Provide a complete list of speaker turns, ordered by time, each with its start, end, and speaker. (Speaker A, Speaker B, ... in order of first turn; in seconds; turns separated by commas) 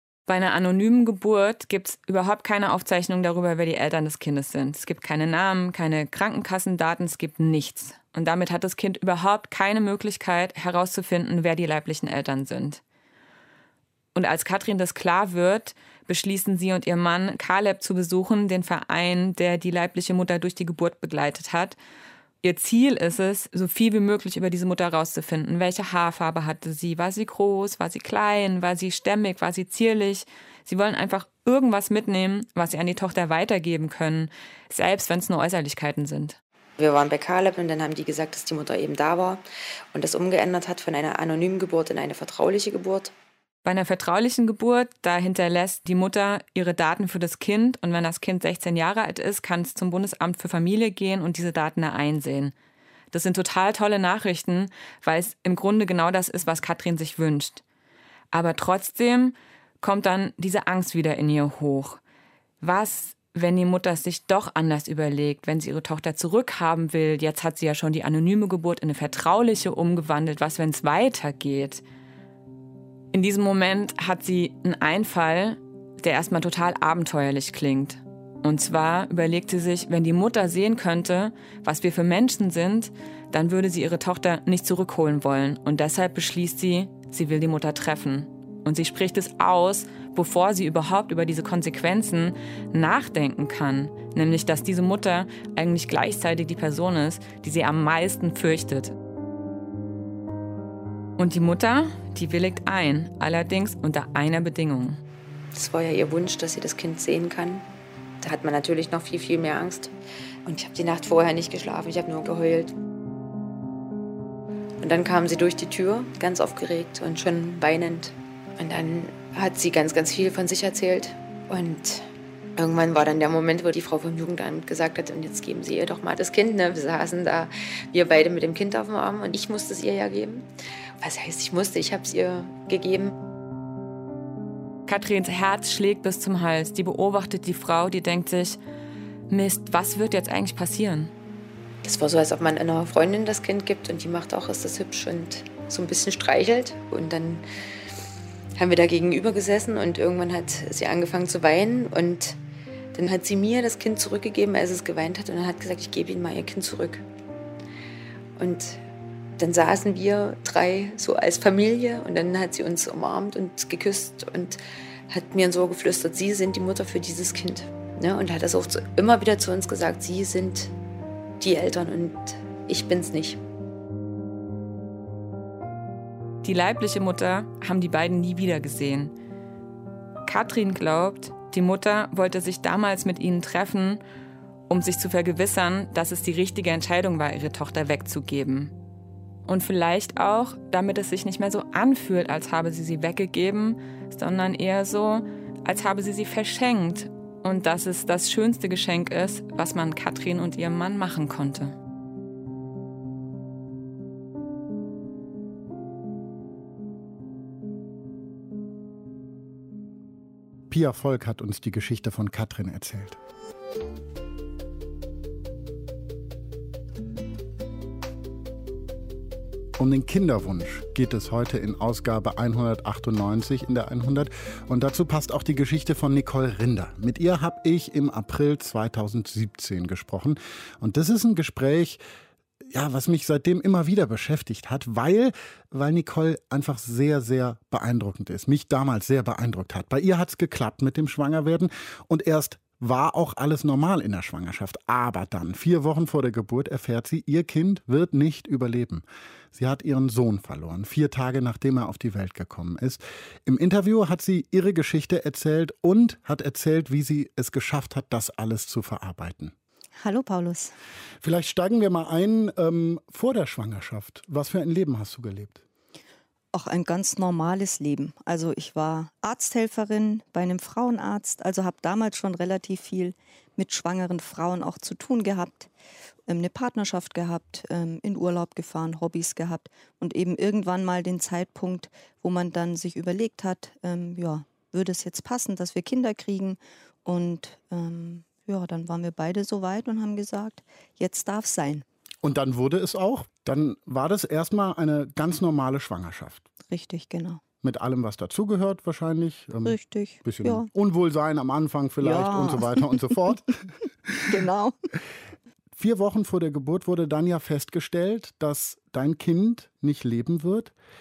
Speaker A: 0.3-12.8, Speaker A: 14.1-21.8, Speaker A: 22.4-36.4, Speaker B: 36.8-39.4, Speaker B: 39.9-43.1, Speaker A: 43.6-52.5, Speaker A: 53.1-57.6, Speaker A: 58.3-62.0, Speaker A: 62.6-71.8, Speaker A: 73.1-98.9, Speaker A: 101.2-105.0, Speaker B: 105.5-107.6, Speaker B: 108.2-109.9, Speaker B: 110.5-112.7, Speaker B: 114.8-130.4, Speaker B: 131.0-133.1, Speaker A: 134.9-138.6, Speaker A: 139.3-141.1, Speaker B: 141.8-147.4, Speaker B: 148.6-152.4, Speaker B: 152.9-157.1, Speaker B: 158.4-158.8, Speaker B: 159.4-170.7, Speaker B: 171.4-173.4, Speaker A: 176.4-179.1, Speaker A: 180.2-184.0, Speaker A: 184.7-188.7, Speaker A: 189.4-201.8, Speaker C: 210.7-213.2, Speaker C: 219.8-232.0, Speaker C: 232.7-259.6, Speaker D: 260.0-260.7, Speaker C: 261.2-265.6, Speaker D: 266.5-275.7, Speaker D: 276.3-291.9, Speaker C: 292.2-296.4, Speaker D: 296.7-297.4, Speaker C: 297.6-304.4, Speaker D: 299.6-300.7, Speaker D: 302.0-303.1, Speaker D: 304.2-304.7, Speaker C: 305.8-310.7